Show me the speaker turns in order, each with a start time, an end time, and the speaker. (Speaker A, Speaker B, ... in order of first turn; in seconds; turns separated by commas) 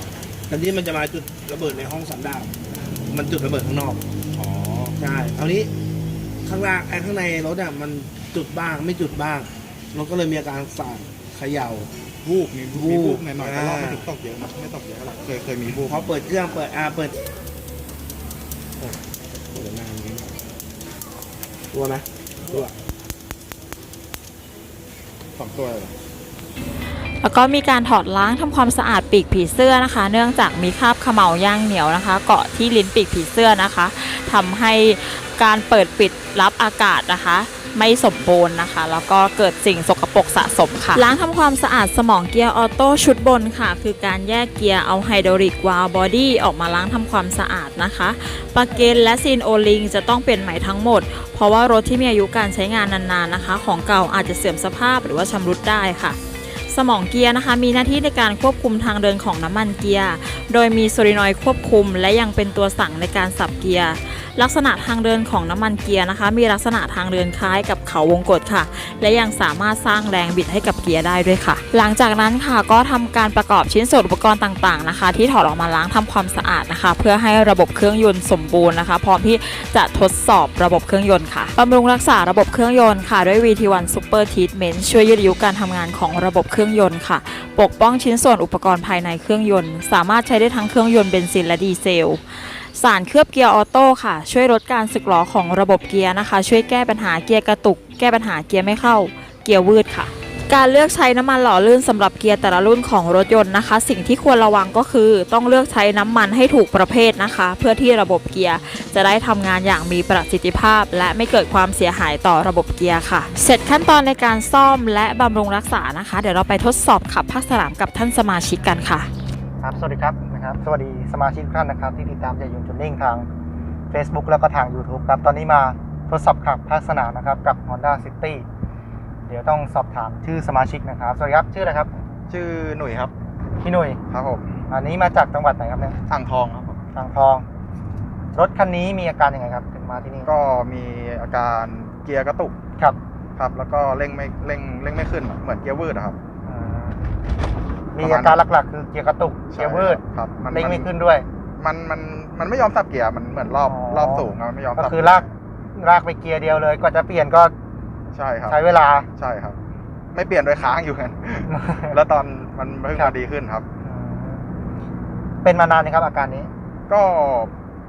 Speaker A: 0.5-2.5, Speaker A: 3.1-4.0, Speaker B: 4.4-5.0, Speaker A: 4.9-5.7, Speaker A: 6.4-11.9, Speaker B: 12.2-16.1, Speaker A: 12.7-14.1, Speaker A: 15.7-17.2, Speaker A: 19.5-20.4, Speaker A: 21.7-22.7, Speaker B: 25.4-25.9, Speaker C: 27.2-56.2, Speaker C: 56.7-119.1, Speaker D: 119.6-123.3, Speaker D: 123.9-128.4, Speaker D: 129.3-131.9, Speaker B: 132.3-133.1, Speaker D: 133.6-134.0, Speaker B: 134.1-134.5, Speaker D: 134.7-136.0, Speaker B: 136.1-136.8, Speaker D: 136.9-137.4, Speaker D: 138.3-140.3, Speaker B: 140.2-142.6, Speaker B: 143.4-146.2, Speaker D: 146.5-147.0, Speaker D: 147.9-150.0, Speaker B: 148.0-148.4, Speaker B: 149.5-150.9, Speaker D: 150.5-151.3, Speaker B: 151.6-155.3, Speaker D: 153.7-157.5, Speaker B: 158.1-158.6, Speaker D: 158.5-159.1, Speaker B: 159.2-159.6, Speaker B: 160.1-163.7, Speaker D: 161.5-162.0, Speaker D: 163.8-164.5, Speaker D: 165.4-166.5, Speaker B: 166.9-167.5